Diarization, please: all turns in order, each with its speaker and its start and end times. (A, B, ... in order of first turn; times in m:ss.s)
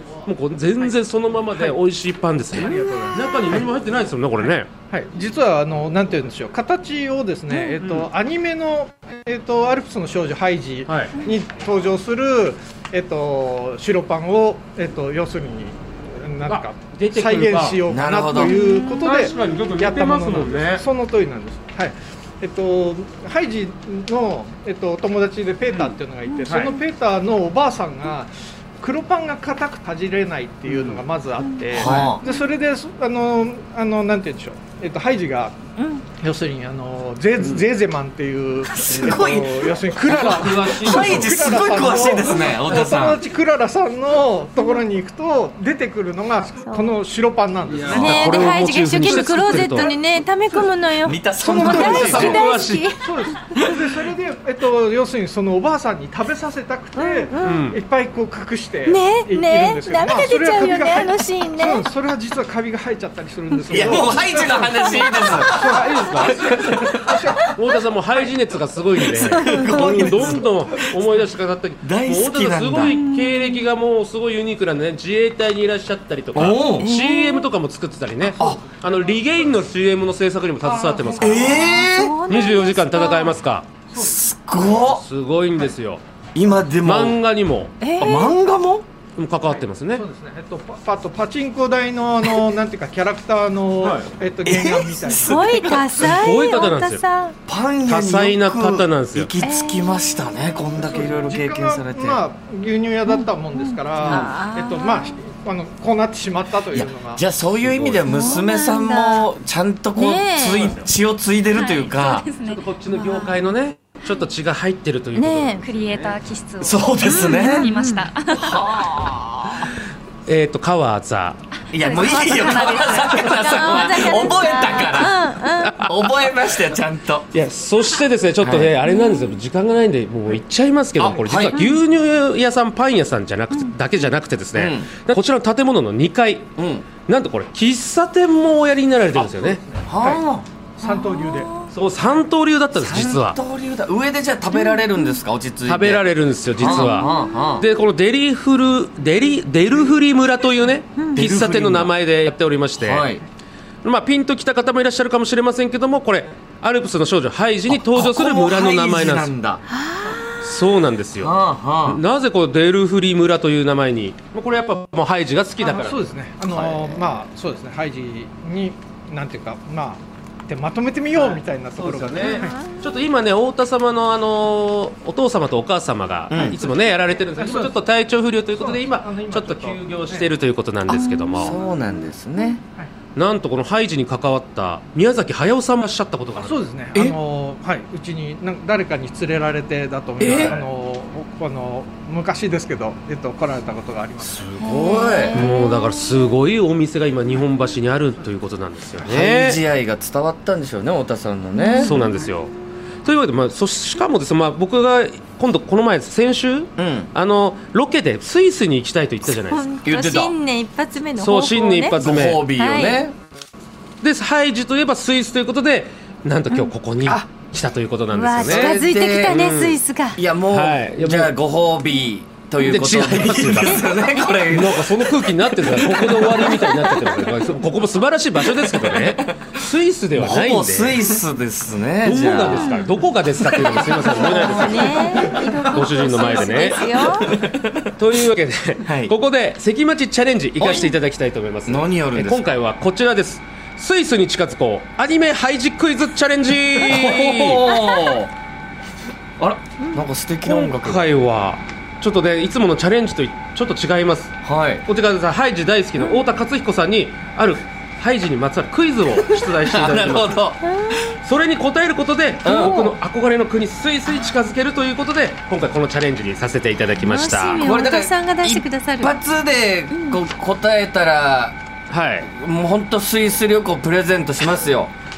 0:00.2-0:04.7 A
0:02.5-0:03.6 B
0:04.4-0:35.6 B
0:07.8-0:08.1 A
0:10.8-0:11.1 A
0:16.5-0:17.8 A
0:17.8-0:18.6 C
0:18.4-0:19.1 D
0:18.8-0:20.8 A
0:26.2-0:26.7 D
0:26.4-0:26.8 A
0:30.7-0:31.0 A
0:31.4-0:31.7 D
0:31.8-0:32.2 C
0:35.8-0:36.0 D
0:36.1-0:50.0 B
0:37.4-0:37.6 A
0:38.7-0:43.2 C
0:40.1-0:41.6 A
0:46.6-0:46.9 D
0:47.7-0:49.9 A
0:48.0-0:53.6 D
0:51.0-0:52.4 C
0:51.4-1:07.5 B
0:51.5-0:52.9 A
0:56.9-0:57.6 D
0:57.4-0:57.8 A
0:58.8-1:01.8 D
1:03.7-1:05.7 C
1:03.9-1:04.2 A
1:05.5-1:06.5 A
1:06.2-1:07.2 C
1:07.4-1:21.7 A
1:09.0-1:10.8 C
1:11.8-1:13.0 C
1:12.9-1:13.7 D
1:16.3-1:16.9 C
1:16.8-1:17.5 D
1:18.3-1:18.6 B
1:20.6-1:21.8 B
1:21.2-1:22.2 C
1:21.6-1:23.4 D
1:22.2-1:23.7 A
1:23.9-1:25.0 C
1:24.8-1:26.0 A
1:26.3-1:27.2 C
1:26.8-1:27.7 A
1:27.8-1:28.4 D
1:28.0-1:28.8 C
1:29.2-1:30.0 A
1:29.4-1:35.4 B
1:34.4-1:36.3 C
1:35.2-1:37.4 D
1:36.0-1:37.0 A
1:37.5-1:42.2 C
1:37.8-1:39.3 A
1:39.4-1:40.8 D
1:40.8-1:47.2 B
1:43.0-1:45.2 D
1:44.0-1:44.3 A
1:44.0-1:44.3 C
1:46.7-1:52.2 C
1:47.6-1:48.1 A
1:48.0-1:49.3 D
1:49.9-1:50.8 D
1:51.5-1:52.6 E
1:52.4-1:55.6 A
1:52.9-1:53.4 D
1:55.1-1:55.7 D
1:55.6-1:58.7 E
1:56.6-1:57.7 C
1:57.1-1:58.1 D
1:58.3-1:59.7 C
2:00.3-2:01.4 A
2:01.7-2:05.2 C
2:01.7-2:04.2 E
2:02.0-2:02.4 D
2:03.3-2:05.8 D
2:05.6-2:06.1 A
2:05.8-2:07.3 C
2:07.3-2:16.5 A
2:08.4-2:08.7 C
2:08.8-2:09.4 D
2:11.0-2:11.6 C
2:13.5-2:13.8 D
2:14.5-2:14.9 C
2:16.6-2:16.9 C
2:17.0-2:19.6 A
2:19.7-2:20.2 B
2:19.8-2:20.4 C
2:20.8-2:21.5 B
2:20.8-2:21.7 D
2:21.7-2:23.4 A
2:22.7-2:27.7 C
2:24.6-2:25.2 D
2:25.6-2:33.1 A
2:26.8-2:27.6 D
2:31.1-2:31.9 C
2:32.8-2:33.2 C
2:33.8-2:39.3 A
2:37.7-2:39.6 C
2:39.7-2:40.5 D
2:40.4-2:46.0 A
2:41.2-2:42.0 C
2:45.6-2:52.6 B
2:46.5-2:47.2 C
2:51.1-3:01.6 A
2:52.2-2:52.5 D
2:56.3-2:56.6 C
2:56.7-2:57.8 B
2:58.5-3:00.3 B
3:00.9-3:01.6 D
3:01.3-3:02.6 C
3:03.1-3:07.1 A
3:06.4-3:14.6 B
3:10.2-3:10.6 A
3:10.2-3:10.6 C
3:14.2-3:15.5 C
3:14.6-3:15.9 D
3:15.3-3:19.6 A
3:19.0-3:22.0 C
3:21.5-3:22.2 D
3:21.8-3:29.6 A
3:26.8-3:27.1 C
3:29.3-3:32.0 D
3:29.8-3:30.3 C
3:31.2-3:32.5 A
3:32.0-3:33.1 C
3:32.5-3:33.0 D
3:34.0-3:39.8 A
3:38.1-3:40.2 D
3:38.4-3:39.4 C
3:40.1-3:47.3 C
3:40.5-3:41.4 A
3:42.6-3:44.0 A
3:44.5-3:51.1 A
3:48.4-3:49.5 C
3:50.2-3:52.7 C
3:52.0-3:56.8 A
3:52.4-3:53.0 D
3:53.5-3:54.8 C
3:53.9-3:57.3 D
3:56.2-3:57.9 C
3:58.0-4:07.8 A
3:58.8-3:59.1 C
4:00.6-4:00.9 C
4:01.7-4:02.5 C
4:06.7-4:08.3 C
4:09.4-4:11.0 C
4:10.4-4:14.3 A
4:14.4-4:14.8 C
4:14.8-4:20.4 A
4:16.0-4:16.3 D
4:19.1-4:20.6 C
4:20.6-4:21.1 D
4:21.2-4:27.7 A
4:22.4-4:22.8 C
4:22.6-4:22.9 D
4:27.0-4:29.2 D
4:27.6-4:31.6 C
4:29.9-4:30.2 D
4:31.9-4:32.3 A
4:32.3-4:34.9 C